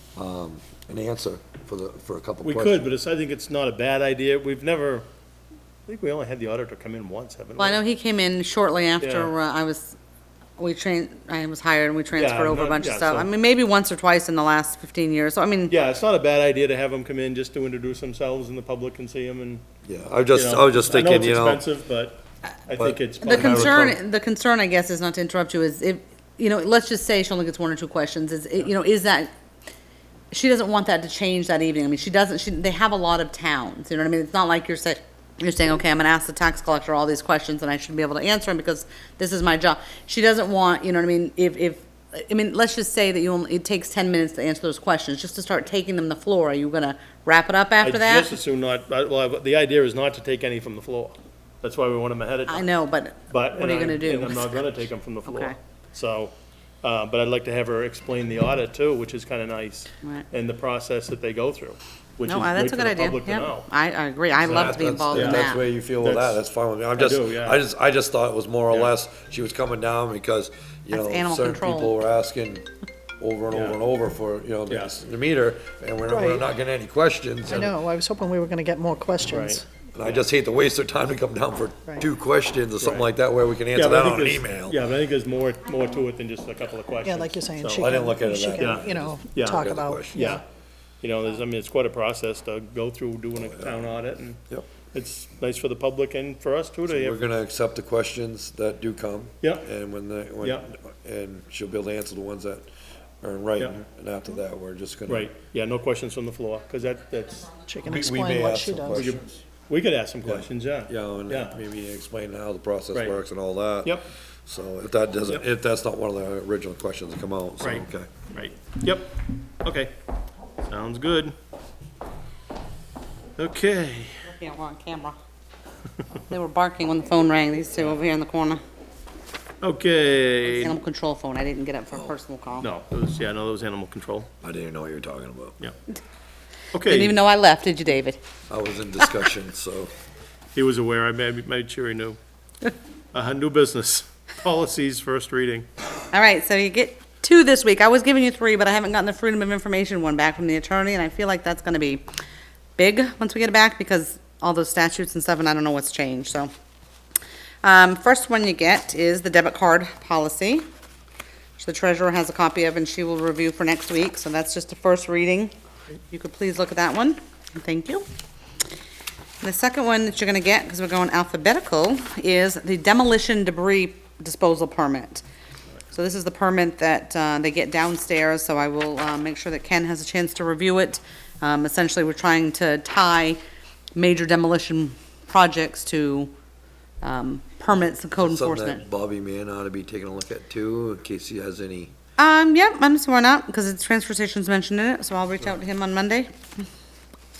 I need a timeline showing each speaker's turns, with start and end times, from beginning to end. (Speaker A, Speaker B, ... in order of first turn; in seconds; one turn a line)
Speaker A: 0.2-2.9
Speaker B: 2.4-5.1
Speaker B: 5.9-7.8
Speaker C: 7.6-10.0
Speaker B: 9.0-9.3
Speaker C: 10.6-15.7
Speaker B: 12.2-13.3
Speaker B: 15.7-19.6
Speaker A: 19.9-21.6
Speaker B: 20.3-23.9
Speaker A: 22.7-24.0
Speaker C: 23.2-29.3
Speaker C: 30.3-48.3
Speaker B: 47.8-52.7
Speaker C: 52.5-55.6
Speaker B: 53.3-63.7
Speaker C: 62.3-65.6
Speaker B: 64.4-66.4
Speaker A: 64.5-72.7
Speaker B: 67.0-67.6
Speaker C: 70.9-72.0
Speaker A: 73.2-77.7
Speaker B: 73.5-73.8
Speaker B: 74.7-75.0
Speaker D: 76.1-76.4
Speaker D: 77.5-79.7
Speaker B: 79.3-80.3
Speaker A: 79.9-84.8
Speaker B: 82.8-83.1
Speaker B: 83.7-88.0
Speaker D: 87.0-90.4
Speaker A: 87.8-90.4
Speaker B: 88.6-90.4
Speaker B: 91.0-97.2
Speaker A: 93.4-93.8
Speaker A: 96.9-102.7
Speaker B: 99.4-99.7
Speaker B: 100.4-100.7
Speaker A: 103.2-105.3
Speaker B: 105.1-107.5
Speaker D: 107.7-109.2
Speaker A: 107.8-109.3
Speaker B: 108.9-111.6
Speaker A: 110.2-118.1
Speaker B: 117.6-119.9
Speaker B: 120.7-121.3
Speaker B: 123.4-124.3
Speaker C: 124.3-125.2
Speaker C: 126.2-128.6
Speaker B: 129.6-130.8
Speaker C: 130.6-132.7
Speaker B: 132.6-134.3
Speaker A: 134.4-135.6
Speaker B: 136.7-137.2
Speaker C: 136.9-138.2
Speaker A: 138.5-139.9
Speaker B: 140.6-142.2
Speaker B: 143.1-145.7
Speaker C: 146.1-152.0
Speaker C: 152.8-156.5
Speaker C: 157.6-160.6
Speaker C: 161.6-165.5
Speaker C: 166.1-168.0
Speaker C: 169.4-175.2
Speaker C: 175.9-183.4
Speaker C: 184.0-186.3
Speaker C: 187.0-188.8
Speaker A: 188.2-191.9
Speaker C: 192.2-196.7